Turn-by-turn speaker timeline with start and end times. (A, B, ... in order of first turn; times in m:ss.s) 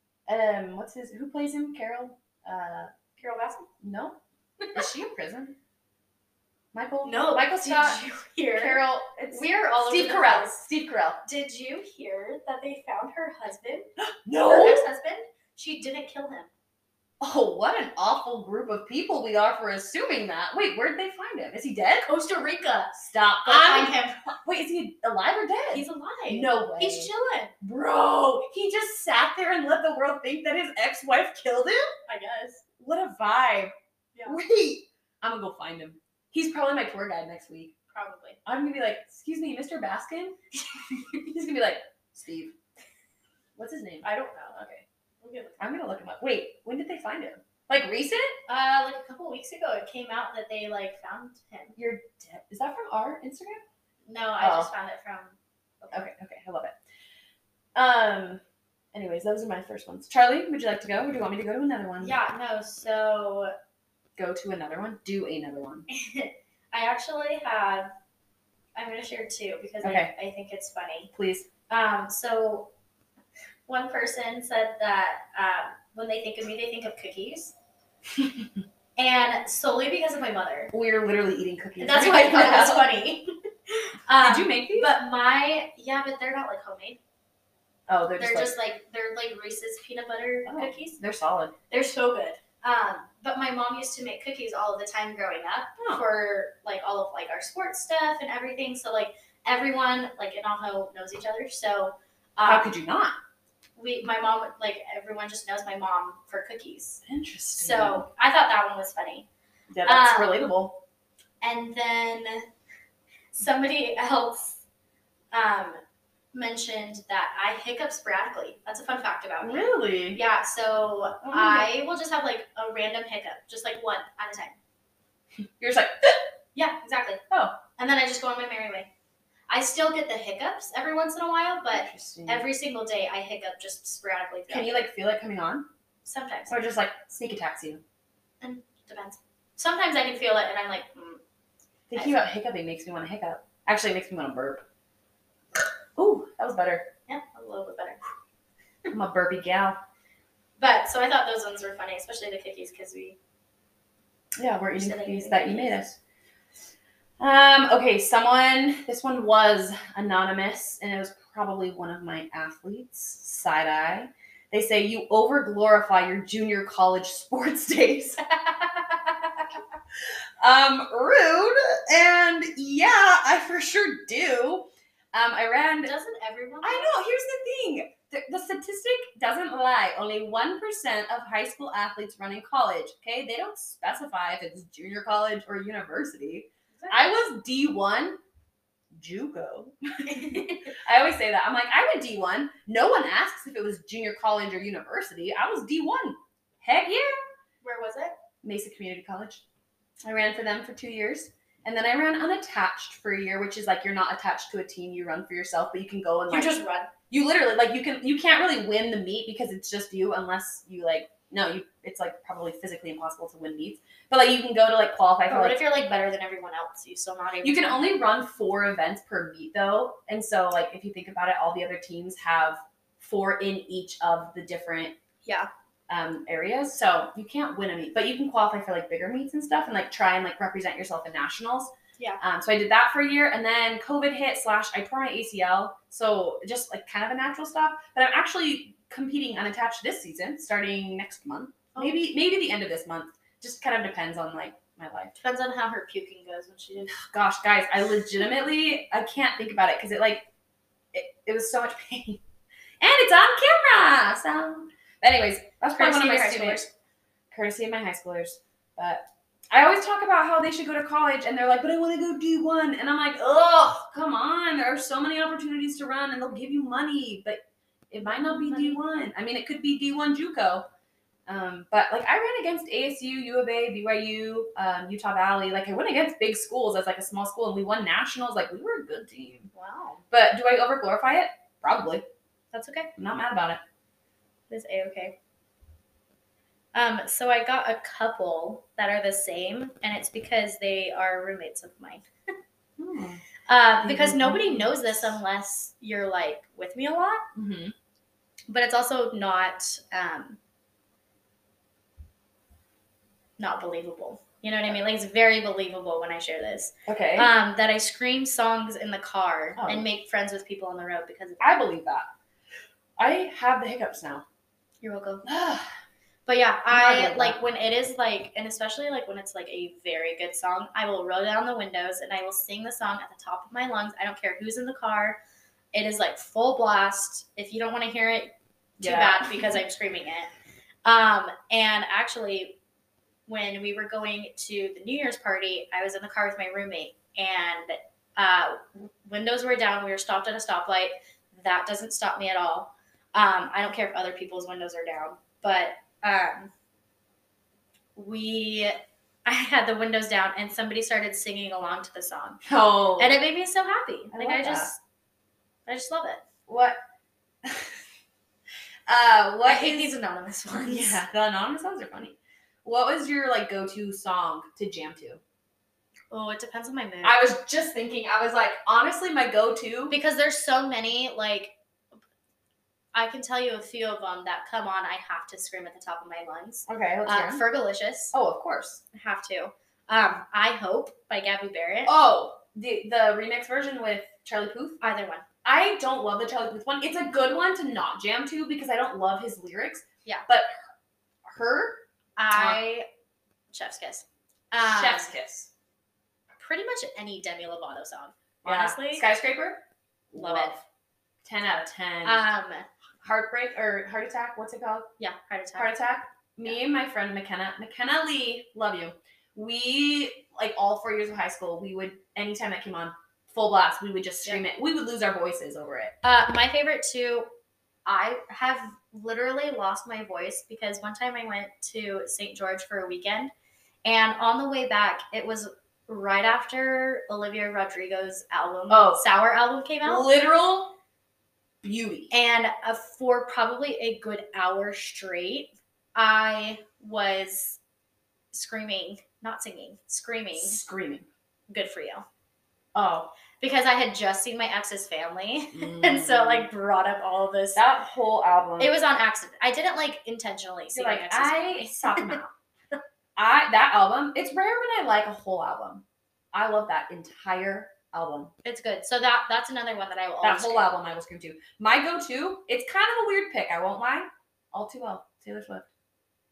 0:00.3-0:02.9 A
0:03.2-0:03.7 B
0:03.8-0:04.2 A
0:04.7-0:05.6 A
0:06.7-0:08.0 A
0:07.0-0:10.6 B
0:08.6-0:11.2 A
0:11.2-0:13.9 B
0:14.0-0:14.8 A
0:14.4-0:16.5 B
0:17.2-0:22.1 A
0:22.0-0:24.3 B
0:23.0-0:31.9 A
0:25.7-0:27.5 B
0:32.1-0:32.6 B
0:32.8-0:33.7 A
0:34.2-0:37.7 A
0:37.9-0:38.4 B
0:38.4-0:40.4 A
0:40.9-0:41.2 B
0:41.3-0:42.5 A
0:43.6-0:44.8 A
0:44.0-0:44.6 B
0:45.2-0:45.9 B
0:45.6-0:48.4 A
0:48.5-0:51.8 B
0:51.8-0:53.6 A
0:54.0-0:56.1 B
0:54.4-0:54.7 A
0:55.9-0:56.8 A
0:57.7-0:58.4 A
0:58.9-1:02.1 A
1:02.0-1:03.5 B
1:04.2-1:05.8 A
1:05.9-1:07.9 B
1:08.8-1:11.1 B
1:09.8-1:10.1 A
1:11.1-1:11.5 A
1:11.7-1:12.7 B
1:13.7-1:17.5 B
1:19.0-1:20.7 B
1:20.7-1:22.8 A
1:21.8-1:27.0 B
1:24.2-1:24.9 A
1:27.9-1:28.5 A
1:28.2-1:31.0 B
1:30.4-1:31.5 A
1:31.7-1:42.7 B
1:35.8-1:36.0 A
1:42.4-1:43.2 A
1:43.8-1:47.0 B
1:47.0-1:48.0 A
1:47.5-1:49.3 B
1:49.7-1:50.8 A
1:49.8-1:50.5 B
1:51.4-1:52.5 B
1:53.3-1:54.6 B
1:55.3-1:55.8 B
1:56.3-2:04.6 B
1:59.4-2:00.2 A
2:01.2-2:01.7 A
2:05.6-2:06.2 A
2:06.5-2:07.2 B
2:07.3-2:07.6 A
2:07.8-2:08.9 B
2:09.5-2:14.8 B
2:11.7-2:12.4 A
2:14.5-2:15.6 A
2:16.0-2:16.6 B
2:16.5-2:17.8 A
2:18.4-2:21.2 B
2:21.9-2:24.6 A
2:26.0-2:26.9 A
2:27.1-2:28.0 B
2:28.9-2:29.8 A
2:30.6-2:33.2 B
2:34.4-2:36.0 A
2:34.8-2:35.8 B
2:37.2-2:48.2 A
2:48.2-2:49.5 B
2:50.4-2:55.9 A
2:55.8-2:57.0 B
2:56.6-3:08.2 A
3:06.8-3:07.2 B
3:08.9-3:17.1 A
3:10.0-3:10.8 B
3:17.6-3:18.1 B
3:18.4-3:19.4 A
3:20.0-3:26.6 A
3:26.3-3:26.9 B
3:27.1-3:35.6 A
3:35.3-3:37.9 B
3:37.4-3:45.0 A
3:45.9-4:05.1 A
4:01.7-4:02.0 B
4:05.2-4:07.0 B
4:06.9-4:10.2 A
4:10.9-4:12.2 A
4:12.8-4:16.6 A
4:15.7-4:16.7 B
4:17.3-4:30.6 A
4:28.0-4:28.8 B
4:31.3-4:39.5 A
4:39.5-4:40.0 B
4:40.1-4:42.0 A
4:42.5-4:42.9 B
4:43.0-4:43.6 A
4:44.5-4:45.2 B
4:46.7-4:52.0 B
4:52.8-4:53.2 A
4:53.5-4:57.2 B
4:53.8-4:55.2 A
4:57.3-4:57.7 A
4:58.5-5:00.4 B
5:03.4-5:11.5 B
5:06.9-5:07.3 A
5:09.6-5:09.9 A
5:11.4-5:12.1 A
5:13.0-5:14.2 A
5:14.8-5:15.2 B
5:15.2-5:15.6 A
5:16.2-5:25.2 B
5:16.7-5:17.4 A
5:25.7-5:30.3 B
5:28.8-5:29.6 A
5:30.8-5:32.6 B
5:33.3-5:46.5 B
5:48.0-5:52.4 B
5:52.4-5:53.1 A
5:53.0-5:54.8 B
5:54.1-5:54.7 A
5:55.7-5:56.2 B
5:56.5-5:56.8 A
5:57.4-5:57.8 A
5:58.9-5:59.9 A
5:59.4-6:01.0 B
6:00.6-6:05.2 A
6:06.1-6:07.2 B
6:07.0-6:09.9 A
6:09.9-6:11.5 B
6:12.9-6:18.1 B
6:16.7-6:17.4 A
6:18.1-6:18.8 A
6:18.9-6:21.9 B
6:21.8-6:24.8 A
6:24.8-6:25.2 B
6:25.4-6:30.5 A
6:31.2-6:32.6 A
6:32.2-6:32.9 B
6:33.5-6:35.1 B
6:34.6-6:35.5 A
6:36.4-6:39.0 B
6:38.4-6:40.6 A
6:40.2-6:40.6 B
6:41.2-6:42.2 A
6:42.0-6:42.7 B
6:43.0-6:44.9 A
6:45.0-6:45.7 B
6:45.6-6:56.0 A
6:56.0-6:57.3 B
6:57.8-7:03.3 B
7:03.8-7:10.1 B
7:08.7-7:09.0 A
7:09.8-7:10.7 A
7:11.6-7:12.1 A
7:12.1-7:17.6 B
7:18.3-7:20.6 B
7:20.4-7:21.1 A
7:21.5-7:22.0 B
7:22.7-7:23.1 A
7:23.4-7:27.6 B
7:25.5-7:26.5 A
7:27.5-7:28.7 A
7:28.6-7:32.2 B
7:30.7-7:32.3 A
7:33.2-7:38.3 A
7:38.4-7:40.7 B
7:40.2-7:45.7 A